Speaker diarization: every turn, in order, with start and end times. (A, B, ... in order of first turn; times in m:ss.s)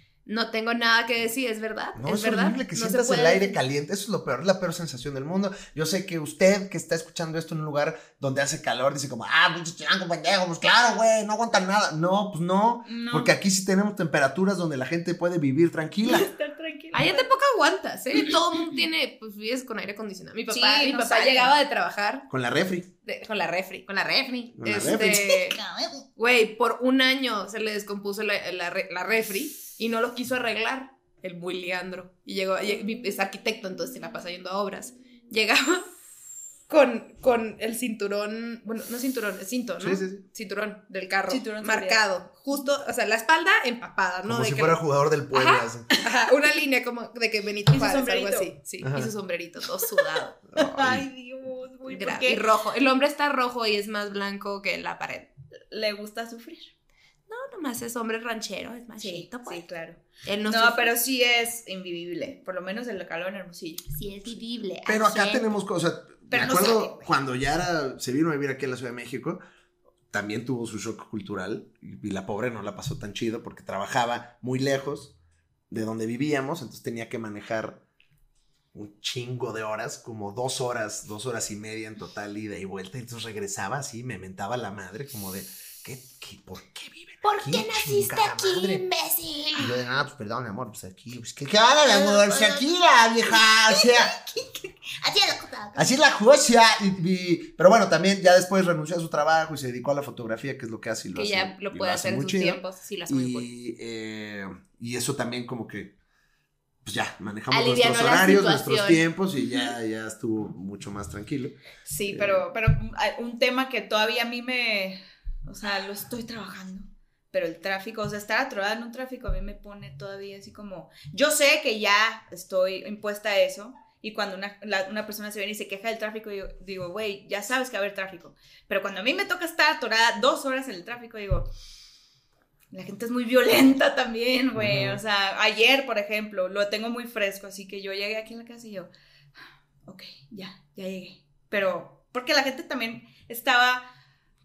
0:00.3-0:03.6 A
0:02.0-0:16.3 B
0:12.9-0:13.3 C
0:16.0-0:17.3 C
0:16.9-0:22.3 A
0:20.5-0:21.5 C
0:22.3-0:22.9 B
0:23.0-0:25.6 A
0:24.6-0:25.4 B
0:24.9-0:26.0 C
0:26.2-0:35.9 A
0:36.7-0:44.8 A
0:39.8-0:40.2 B
0:41.3-0:42.0 C
0:44.3-0:45.9 B
0:45.3-0:50.4 A
0:47.7-0:48.5 C
0:48.8-0:49.1 B
0:50.5-0:51.1 B
0:50.6-0:52.4 C
0:51.9-0:55.3 A
0:55.7-0:56.7 C
0:57.3-0:59.6 A
0:59.0-1:03.9 C
1:00.2-1:00.9 A
1:03.9-1:05.5 A
1:04.9-1:09.4 B
1:06.3-1:07.1 C
1:10.1-1:15.1 B
1:15.7-1:17.8 B
1:18.7-1:28.8 B
1:27.2-1:29.7 A
1:29.6-1:34.1 B
1:31.8-1:32.6 D
1:33.3-1:35.9 D
1:35.8-1:45.9 B
1:41.2-1:43.5 A
1:46.8-1:51.6 B
1:47.5-1:49.0 A
1:51.9-2:11.5 C
1:52.1-1:52.4 B
2:12.7-2:18.9 C
2:14.6-2:15.0 B
2:19.9-2:23.9 C